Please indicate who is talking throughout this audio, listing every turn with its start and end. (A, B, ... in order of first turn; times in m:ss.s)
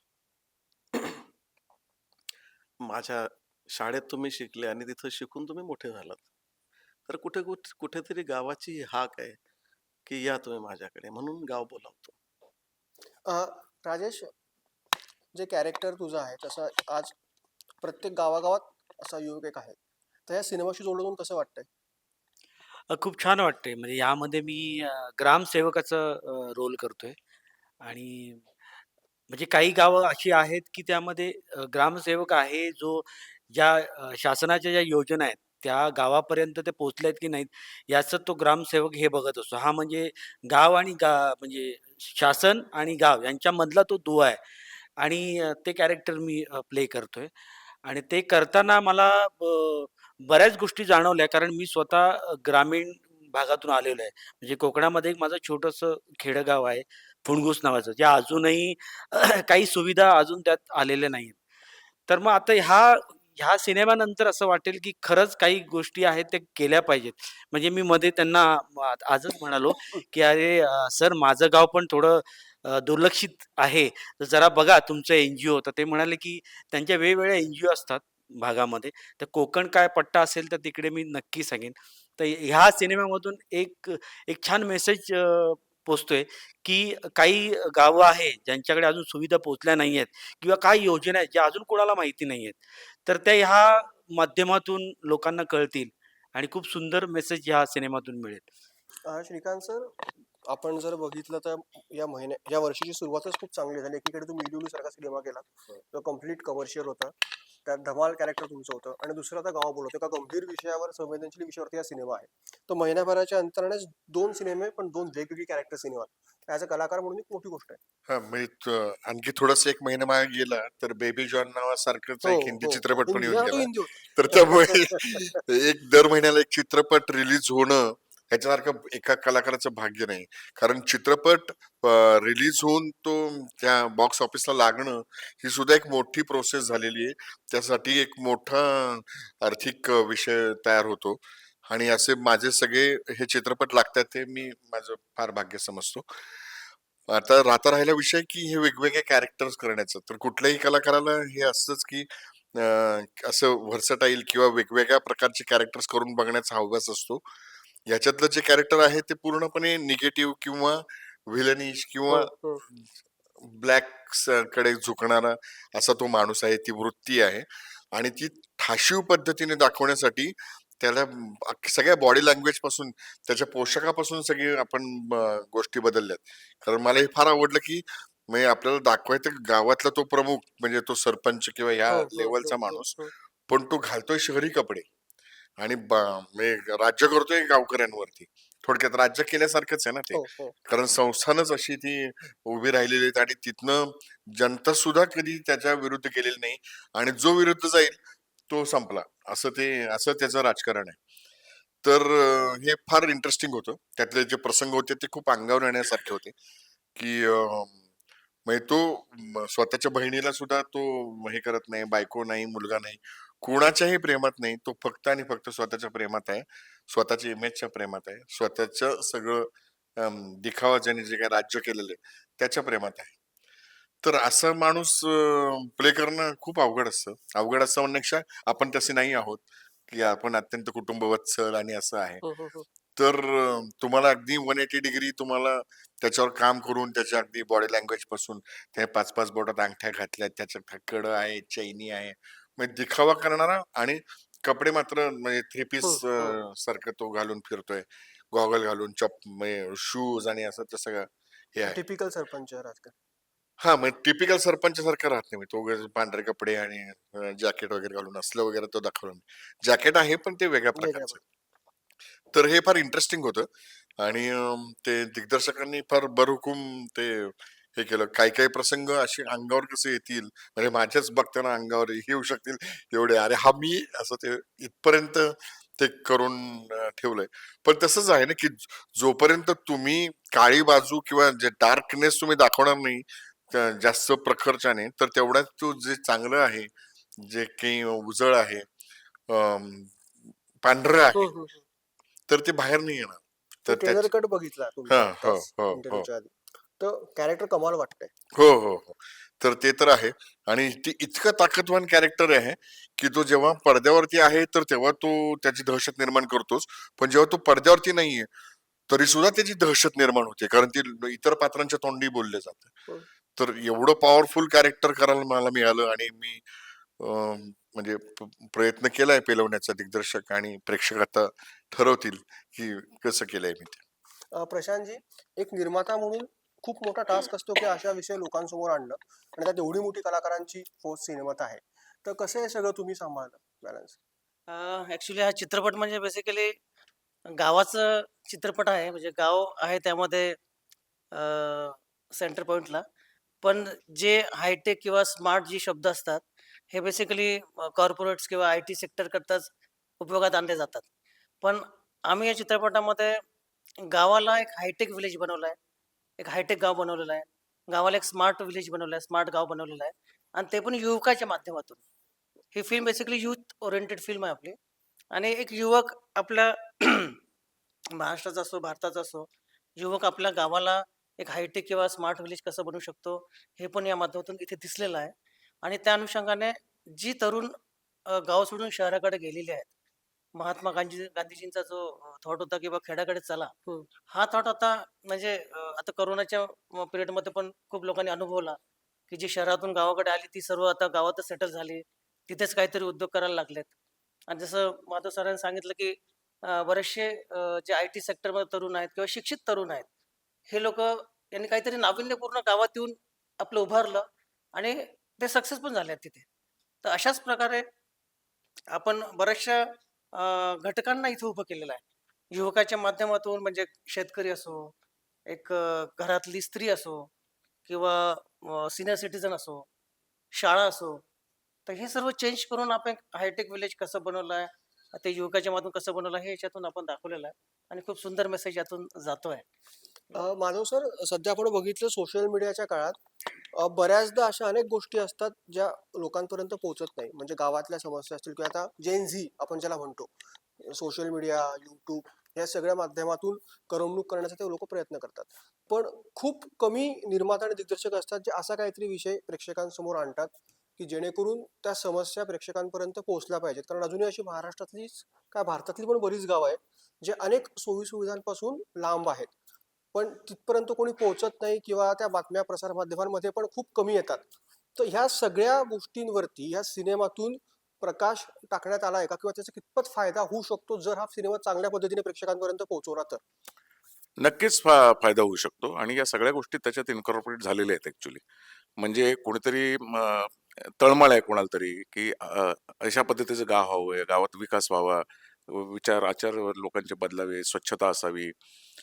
0:02.8-0:06.3 A
0:07.1-0:09.4 A
0:10.0-0:12.1 A
0:13.2-0:14.3 B
0:15.3-0:17.1 B
0:17.8-0:19.8 B
0:20.3-0:21.7 B
0:22.9-0:27.2 C
0:27.8-0:28.5 C
0:29.3-0:44.4 C
0:45.0-0:47.3 C
0:47.8-1:01.4 C
1:02.1-1:38.4 C
1:39.0-1:39.9 B
1:40.5-1:47.1 B
1:47.6-1:57.8 B
1:58.1-2:26.1 D
2:02.2-2:05.2 B
2:27.1-2:37.2 D
2:37.9-2:42.8 D
2:42.1-2:42.6 B
2:43.4-3:04.8 D
3:01.9-3:03.1 B
3:05.6-3:18.0 D
3:10.1-3:10.5 B
3:18.5-3:21.0 D
3:21.8-3:26.3 D
3:27.0-3:27.8 D
3:28.4-3:43.1 D
3:44.0-3:52.2 D
3:52.2-3:52.6 B
3:53.0-4:11.8 D
4:05.8-4:06.4 B
4:11.6-4:12.9 B
4:13.6-4:21.2 D
4:20.7-4:21.2 B
4:22.3-4:23.5 D
4:24.0-4:48.6 D
4:49.3-4:50.0 D
4:50.6-4:51.3 D
4:51.1-4:51.6 B
4:52.3-4:54.1 D
4:53.7-4:58.1 B
4:54.9-4:56.1 D
4:58.3-5:08.3 D
5:08.9-5:12.8 D
5:13.4-5:16.4 D
5:17.0-5:23.8 D
5:24.3-5:34.0 B
5:34.5-5:36.5 E
5:37.3-5:40.4 E
5:41.1-5:42.8 E
5:43.4-5:50.8 E
5:51.4-5:53.2 E
5:53.9-5:55.6 E
5:56.2-6:01.8 E
6:02.5-6:04.6 E
6:05.1-6:07.2 E
6:08.0-6:17.5 E
6:18.1-6:19.7 E
6:20.3-6:23.5 E
6:24.1-6:28.6 E
6:29.1-6:33.7 E
6:34.3-6:39.8 E
6:40.5-6:46.2 E
6:46.8-6:47.6 E
6:48.7-6:49.6 E
6:50.2-6:54.7 E
6:55.3-6:57.1 E
6:57.6-6:59.6 E
7:00.3-7:01.0 E
7:01.6-7:09.4 E
7:10.1-7:13.0 B
7:13.5-7:39.3 B
7:39.9-7:53.2 B
7:54.2-7:58.2 F
7:58.8-8:08.3 F